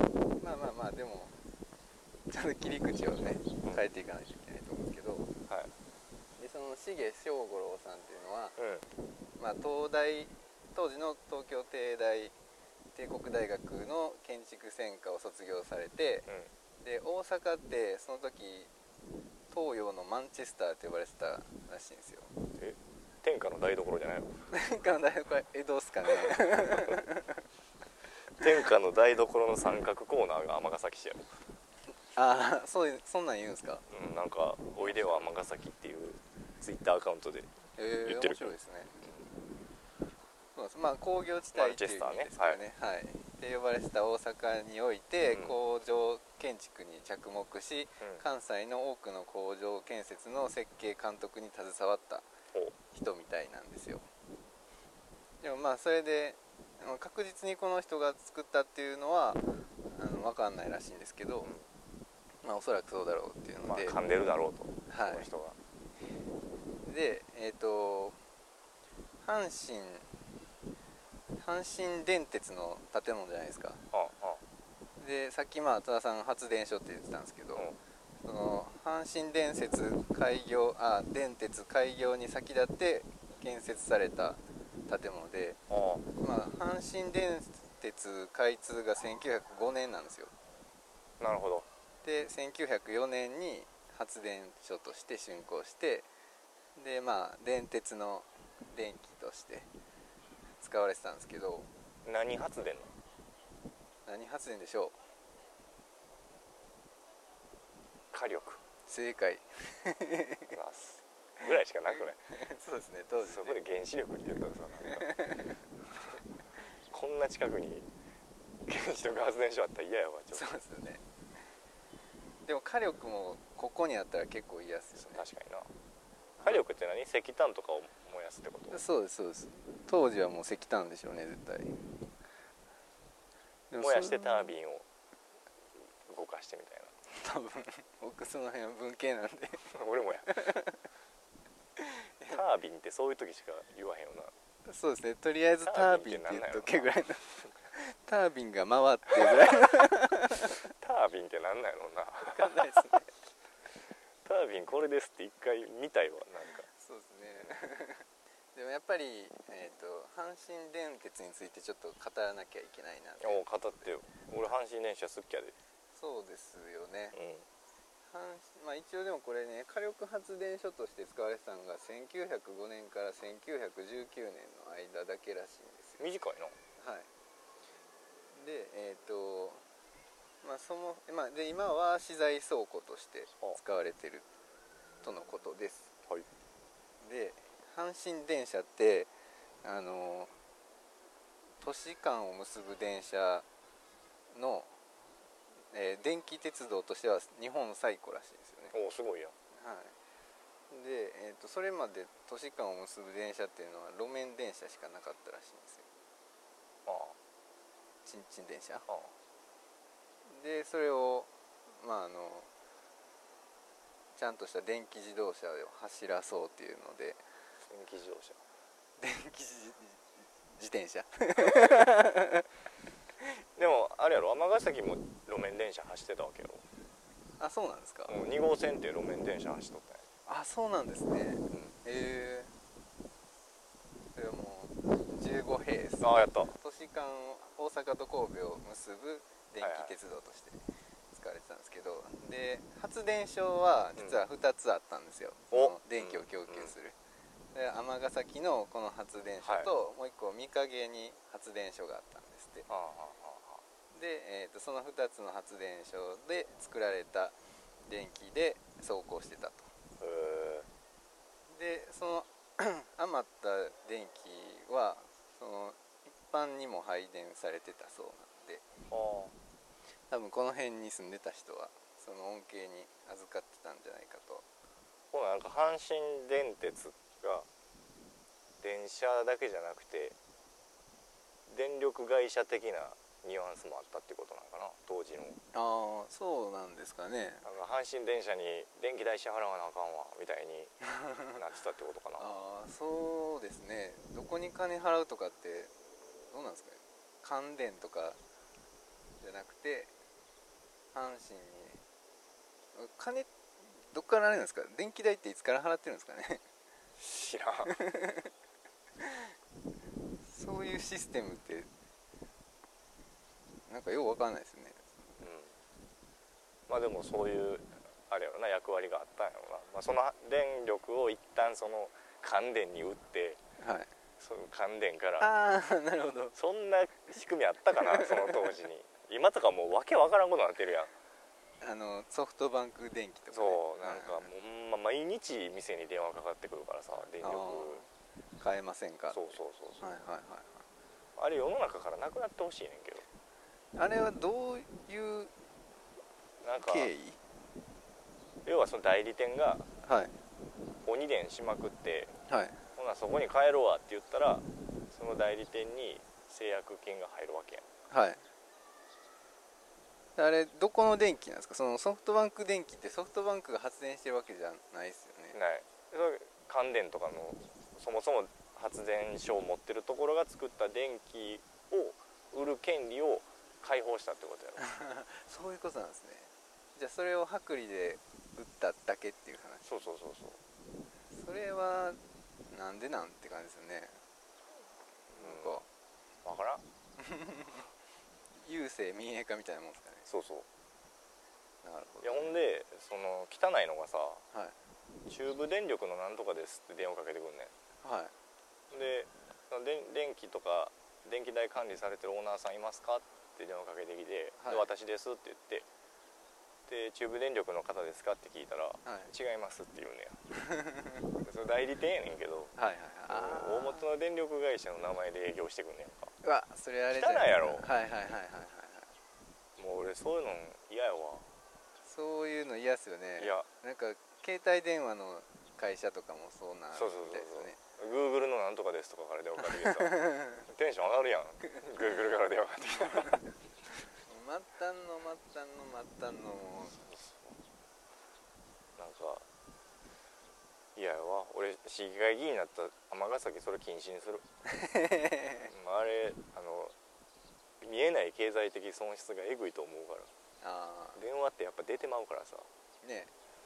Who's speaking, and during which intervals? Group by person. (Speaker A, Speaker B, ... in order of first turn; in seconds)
Speaker A: 0.4-1.4, 2.3-5.3, 6.4-8.6, 9.4-12.3, 12.9-16.3, 16.8-18.7, 19.5-22.3, 24.5-27.4, 32.1-33.9, 34.8-35.2, 37.8-39.1, 40.5-52.3, 52.9-54.0, 55.4-61.5, 62.4-64.0, 64.9-65.3, 66.8-68.2, 69.2-70.1, 71.4-73.8, 75.0-77.7, 78.2-85.6, 86.2-90.3, 92.0-96.1, 96.8-99.7, 100.6-101.7, 104.0-104.9, 108.9-110.5, 112.3-113.6, 114.8-115.6, 120.3-121.0, 122.5-125.2, 128.7-131.8, 133.7-134.5, 137.1-140.8, 141.8-142.4, 144.6-150.7, 152.3-153.1, 156.7-163.4, 165.9-167.2, 168.1-176.0, 176.8-177.1, 178.3-179.6, 180.4-184.3, 185.0-185.9, 187.0-189.1, 189.6-190.3, 191.6-193.4, 194.3-194.8, 195.7-198.7, 199.5-199.9, 200.7-205.9, 208.0-208.8, 210.3-212.5, 214.2-217.2, 219.0-222.5, 227.4-228.2, 230.2-232.5, 234.1-246.9, 247.5-252.7, 253.9-259.7, 261.5-268.6, 270.1-274.4, 285.5-287.4, 290.8-291.4, 292.2-295.7, 296.3-298.2, 299.2-299.9, 300.9-301.8, 302.7-306.4, 307.6-308.3, 309.0-309.3, 310.2-311.7, 313.7-315.0, 323.6-323.9, 325.2-326.4, 327.8-328.6, 331.6-334.3, 337.2-337.9, 338.4-340.6, 343.7-345.3, 346.6-347.2, 349.8-350.1, 352.3-352.6, 357.9-358.2, 360.2-365.4, 374.6-379.7, 381.1-382.0, 382.5-384.0, 385.1-385.7, 387.0-387.6, 388.4-390.1, 391.6-392.3, 397.8-398.1, 404.4-404.7, 408.8-409.1, 410.3-411.1, 412.6-413.9, 416.2-418.9, 421.8-427.6, 429.6-430.4, 432.9-433.2, 434.1-436.8, 444.5-445.5, 450.4-451.0, 452.8-453.1
Speaker B: 8.6-8.8, 22.6-24.3, 26.1-26.9, 28.4-31.3, 33.9-37.5, 38.0-38.5, 41.5-42.6, 45.3-45.6, 63.6-65.5, 73.9-74.4, 85.7-86.0, 91.2-91.7, 102.0-102.9, 108.1-108.6, 110.5-112.2, 113.2-115.0, 116.9-117.9, 118.7-120.5, 125.1-125.7, 126.4-128.8, 133.8-134.8, 136.0-136.9, 139.7-140.4, 142.3-144.3, 145.6-146.9, 149.2-149.6, 150.8-152.8, 154.2-156.7, 163.2-165.5, 167.1-167.4, 176.0-176.6, 198.7-199.3, 206.8-207.2, 217.6-218.4, 221.4-221.9, 223.5-226.6, 228.1-230.0, 236.0-236.5, 239.6-239.9, 245.5-246.7, 249.4-249.7, 252.7-253.6, 260.0-260.7, 268.9-269.3, 275.1-277.5, 278.6-280.1, 281.5-285.4, 287.4-290.7, 291.4-292.3, 307.0-307.7, 315.2-315.5, 316.7-323.4, 324.2-325.3, 326.3-330.9, 333.3-337.8, 339.1-339.9, 341.2-343.0, 346.4-346.9, 348.4-349.7, 350.8-352.1, 352.8-357.6, 365.3-374.6, 379.6-380.4, 385.1-385.6, 386.2-386.6, 390.1-390.5, 392.0-394.2, 395.1-397.5, 398.7-405.6, 406.7-410.2, 411.2-412.5, 413.1-416.1, 416.9-417.7, 419.6-421.3, 423.2-423.5, 426.7-433.2, 436.8-437.4, 438.8-439.2, 440.8-444.2, 445.5-446.7, 447.6-450.1, 450.9-452.5